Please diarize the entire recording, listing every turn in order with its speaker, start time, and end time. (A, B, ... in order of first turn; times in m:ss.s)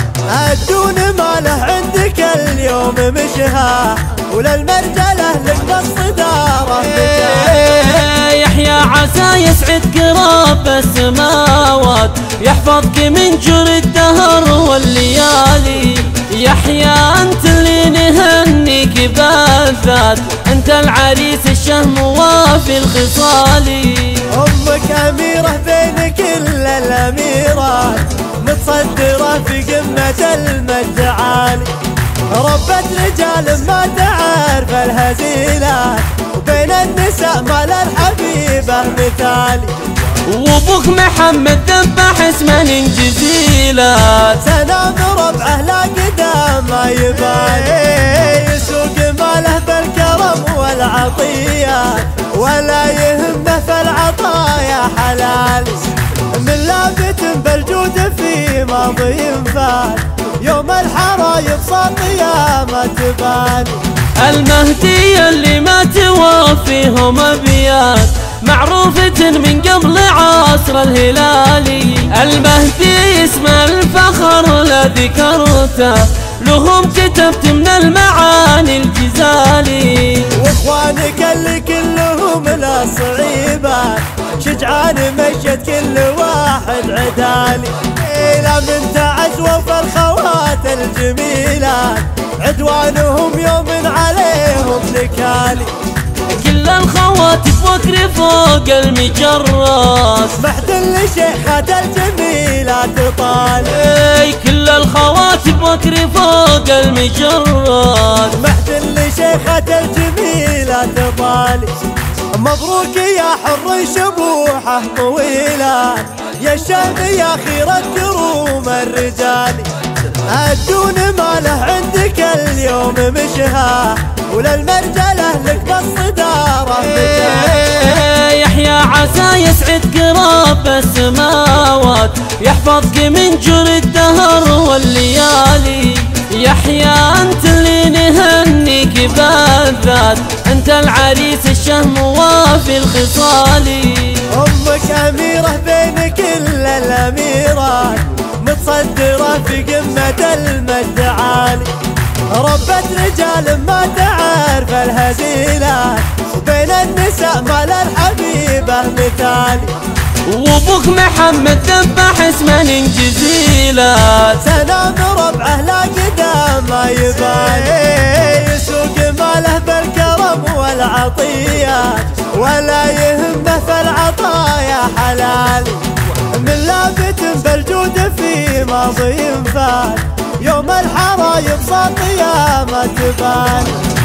0:00.3-0:07.3 A
0:07.0-0:24.3 B
0:24.3-0:31.7 A
0:32.3-0:39.8 A
0:40.2-0:44.4 B
0:44.4-1:03.8 A
1:04.2-1:20.4 B
1:20.3-1:35.7 A
1:36.3-1:40.4 B
1:40.4-1:43.8 A
1:43.7-1:48.4 B
1:48.3-1:51.7 A
1:52.3-1:59.7 A
2:00.2-2:07.6 A
2:07.0-2:24.3 B
2:24.3-2:31.7 A
2:32.3-2:39.7 A
2:40.2-2:44.4 B
2:44.4-3:03.8 A